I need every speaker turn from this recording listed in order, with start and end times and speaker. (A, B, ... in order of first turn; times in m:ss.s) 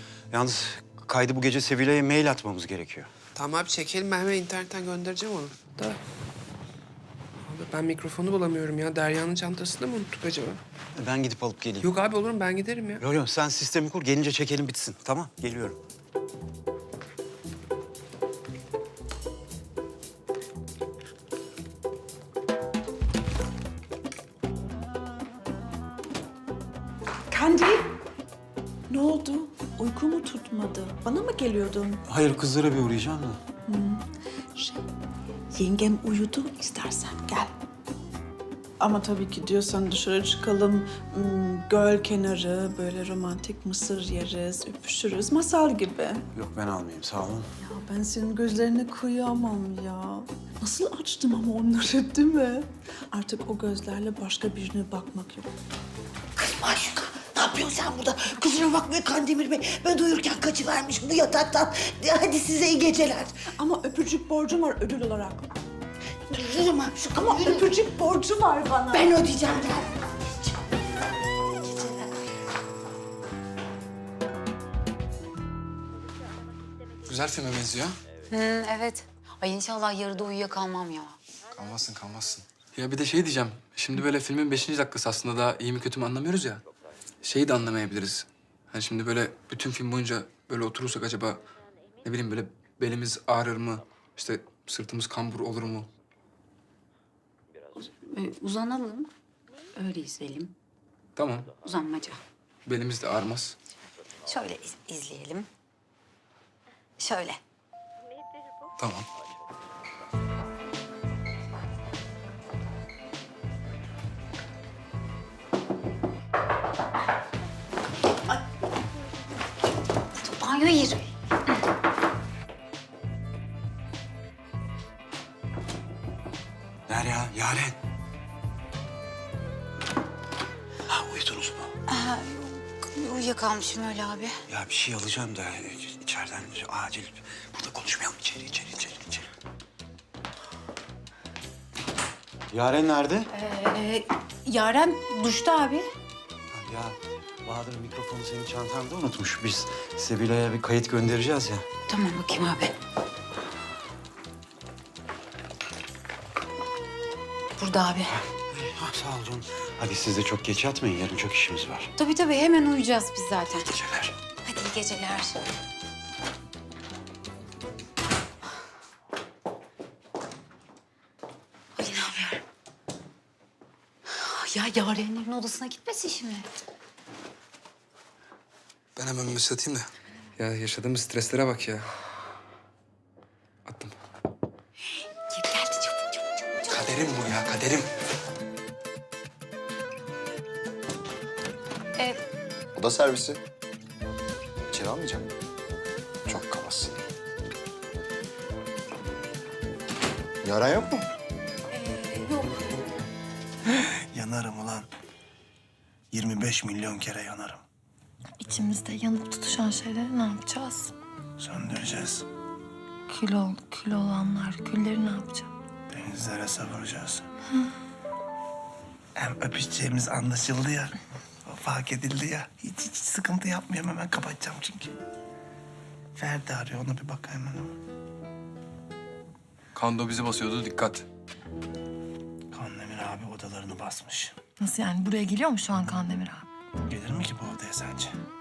0:00.3-0:03.1 A
0:03.4-0:06.0 B
0:07.5-0:10.6 B
0:11.0-0:12.0 A
0:11.8-0:13.0 B
0:13.0-0:15.8 A
0:27.3-0:27.8 C
0:28.9-0:32.0 D
0:32.0-0:33.4 A
0:33.7-0:34.0 D
0:35.5-0:37.5 D
0:38.8-0:46.2 D
0:46.3-0:47.5 A
0:47.6-0:55.5 D
0:58.3-0:58.5 D
0:58.5-0:59.4 E
1:02.3-1:03.0 E
1:03.6-1:05.5 D
1:06.4-1:07.7 E
1:07.0-1:09.1 D
1:17.1-1:18.0 F
1:18.3-1:21.2 C
1:21.6-1:26.6 F
1:27.2-1:31.4 F
1:32.0-1:35.9 F
1:37.8-1:39.1 C
1:39.8-1:40.5 C
1:41.2-1:41.5 F
1:41.6-1:42.2 C
1:42.7-1:43.6 F
1:44.2-1:45.5 C
1:47.0-1:47.4 C
1:48.8-1:49.1 F
2:00.2-2:01.0 C
2:06.9-2:07.8 A
2:10.9-2:11.7 A
2:11.9-2:14.4 C
2:14.5-2:19.2 A
2:22.5-2:23.3 A
2:23.3-2:25.9 C
2:26.5-2:31.6 A
2:31.9-2:32.8 C
2:37.6-2:38.1 C
2:38.4-2:41.9 A
2:42.0-2:43.7 C
2:43.7-2:44.1 A
2:44.4-2:45.4 C
2:51.8-2:52.4 C
2:54.1-2:56.5 C
2:59.0-3:01.8 F
3:03.6-3:04.0 F
3:05.3-3:06.8 C
3:06.7-3:07.9 F
3:12.8-3:13.4 G
3:14.7-3:15.3 G
3:16.2-3:17.0 G
3:20.4-3:21.1 G
3:21.7-3:22.8 C
3:23.7-3:24.9 H
3:26.1-3:27.6 H
3:28.4-3:30.9 I
3:31.4-3:32.2 H
3:33.1-3:35.5 I
3:35.9-3:37.2 H
3:39.2-3:45.0 H
3:46.2-3:47.8 H
3:49.8-3:51.1 F
3:52.5-3:54.3 H
3:54.6-3:56.5 I
3:56.8-3:58.2 H